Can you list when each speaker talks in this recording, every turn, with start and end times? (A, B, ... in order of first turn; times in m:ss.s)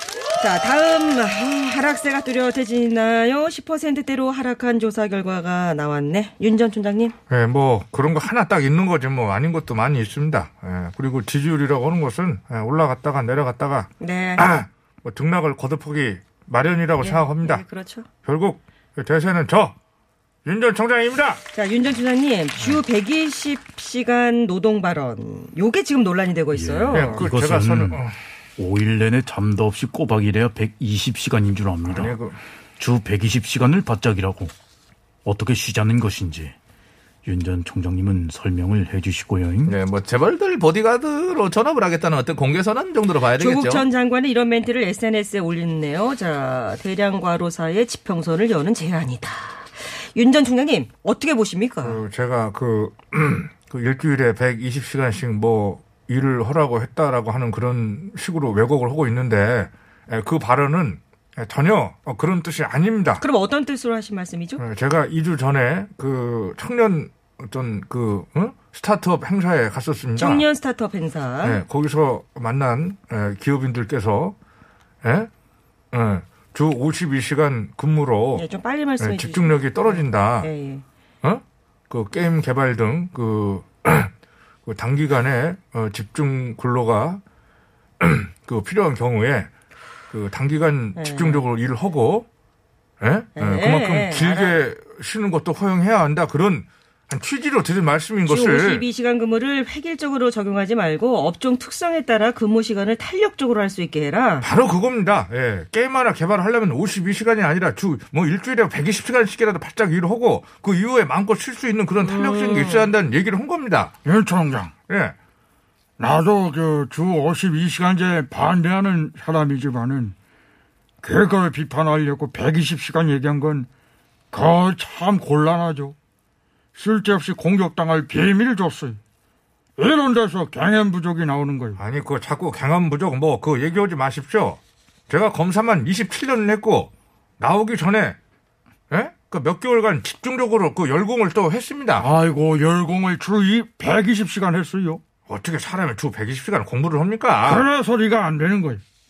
0:00.4-0:07.2 A
0:07.3-0:17.6 B
0:14.0-0:14.4 A
0:17.0-0:18.1 A
0:18.2-0:19.7 B
0:20.4-0:21.4 B
0:21.5-0:27.2 A
0:26.5-0:28.0 C
0:26.9-0:28.2 B
0:28.6-0:32.1 C
0:31.8-0:32.4 B
0:32.8-0:34.5 C
0:35.2-0:36.6 C
0:37.2-0:39.8 C
0:39.7-0:43.9 D
0:43.4-0:52.0 A
0:51.8-1:03.2 B
1:03.2-1:04.6 A
1:04.6-1:10.5 B
1:10.2-1:11.6 A
1:11.4-1:14.4 B
1:15.0-1:15.3 B
1:15.9-1:18.5 B
1:18.4-1:20.8 A
1:19.0-1:20.5 B
1:21.2-1:24.1 B
1:24.7-1:27.2 B
1:28.0-1:29.5 B
1:30.1-1:32.3 B
1:31.0-1:31.4 A
1:33.0-1:38.8 B
1:33.4-1:34.6 A
1:38.3-1:44.5 A
1:44.4-1:53.9 B
1:52.0-1:52.9 A
1:54.0-1:54.7 E
1:54.9-1:55.2 B
1:56.0-2:00.2 E
2:01.0-2:03.7 E
2:04.3-2:06.0 E
2:06.8-2:09.0 E
2:09.8-2:11.8 E
2:11.8-2:18.2 B
2:18.9-2:22.1 B
2:22.0-2:25.0 E
2:25.3-2:27.6 B
2:27.4-2:28.8 E